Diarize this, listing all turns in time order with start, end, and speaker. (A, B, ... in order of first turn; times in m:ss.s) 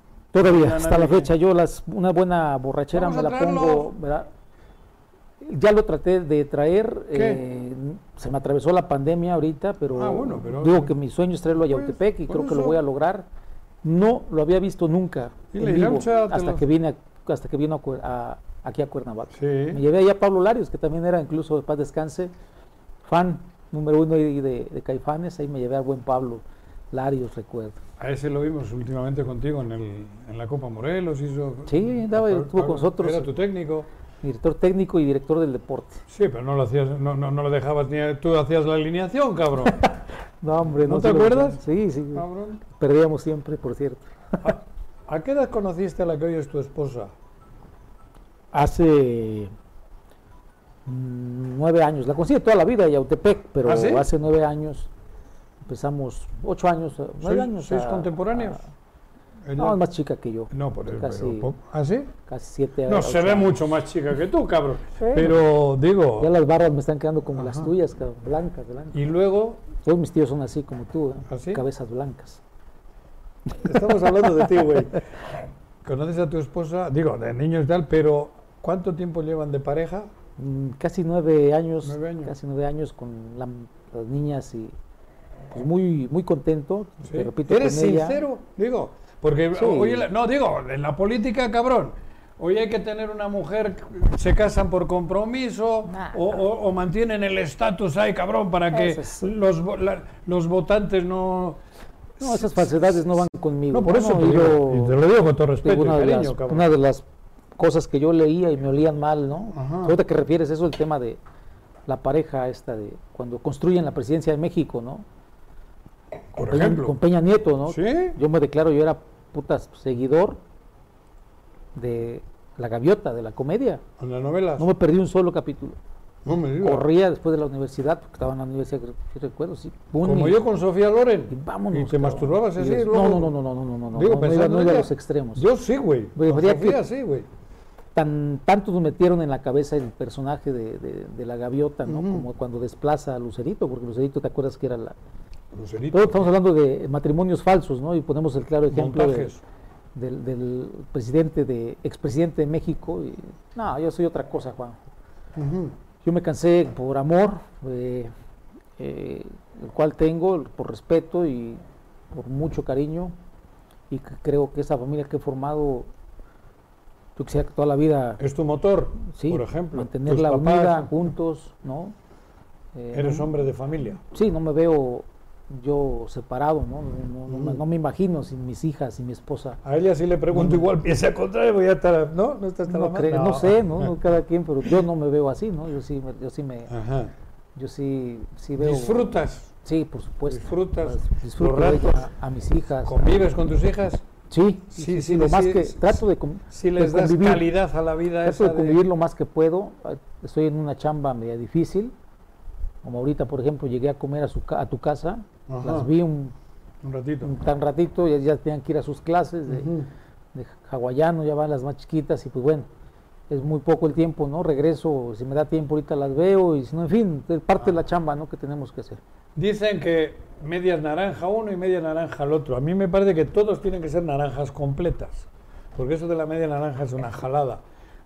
0:00.3-0:04.3 A
0:00.4-0:01.3 B
0:02.9-0:03.9 B
0:05.4-0:13.3 A
0:07.1-0:07.4 B
0:09.9-0:11.0 B
0:11.5-0:12.8 B
0:13.8-0:22.3 A
0:15.5-0:16.7 B
0:19.3-0:19.8 B
0:23.0-0:27.8 A
0:28.0-0:33.9 B
0:31.7-0:33.4 A
0:34.2-0:36.0 A
0:36.1-0:39.8 B
0:39.7-0:44.6 A
0:40.8-0:41.6 B
0:42.1-0:42.6 B
0:44.4-0:47.1 B
0:48.5-0:49.5 A
0:50.9-0:54.9 A
0:53.6-0:54.1 B
0:55.6-0:58.7 A
0:57.2-0:58.6 B
0:59.4-0:59.8 B
0:59.6-1:01.5 A
1:00.5-1:02.1 B
1:02.3-1:03.6 A
1:02.9-1:06.3 B
1:05.0-1:05.4 A
1:06.2-1:09.0 A
1:07.3-1:07.7 B
1:08.9-1:09.7 B
1:09.8-1:12.4 A
1:11.3-1:11.6 B
1:13.6-1:15.0 B
1:15.8-1:20.1 B
1:20.4-1:24.7 A
1:21.8-1:22.3 B
1:25.5-1:28.2 A
1:27.0-1:41.6 B
1:29.5-1:30.1 A
1:35.9-1:36.4 A
1:38.7-1:39.3 A
1:42.2-1:46.7 B
1:42.2-1:45.0 A
1:45.6-1:47.0 A
1:47.6-1:51.2 A
1:49.5-1:50.0 B
1:51.9-1:55.0 A
1:56.3-1:57.0 B
1:56.4-2:00.4 A
1:57.7-1:58.2 B
2:01.8-2:03.8 A
2:04.0-2:04.7 B
2:04.6-2:05.8 A
2:06.2-2:06.9 B
2:06.6-2:10.4 A
2:10.0-2:13.4 B
2:11.3-2:15.4 A
2:13.9-2:17.3 B
2:16.2-2:16.8 A
2:18.0-2:25.0 A
2:21.9-2:22.3 B
2:25.5-2:26.3 B
2:25.9-2:29.3 A
2:28.7-2:29.4 B
2:30.0-2:34.8 A
2:35.4-2:35.8 B
2:36.0-2:38.1 A
2:38.8-2:43.1 A
2:43.9-2:45.9 A
2:47.2-2:48.2 A
2:48.2-2:51.0 B
2:49.1-2:52.0 A
2:52.8-2:53.3 A
2:52.9-2:54.0 B
2:54.1-2:59.6 A
2:57.3-2:57.6 B
2:59.6-3:04.0 B
3:00.3-3:00.6 A
3:02.7-3:06.7 A
3:06.7-3:07.1 B
3:07.6-3:13.2 A
3:08.6-3:09.5 B
3:10.3-3:12.1 B
3:12.8-3:14.0 B
3:14.3-3:17.5 A
3:14.7-3:18.9 B
3:18.2-3:21.9 A
3:22.8-3:26.3 A
3:25.5-3:25.9 B
3:26.8-3:27.4 B
3:27.2-3:29.8 A
3:29.5-3:29.9 B
3:30.3-3:32.7 A
3:33.3-3:39.0 A
3:39.4-3:47.6 B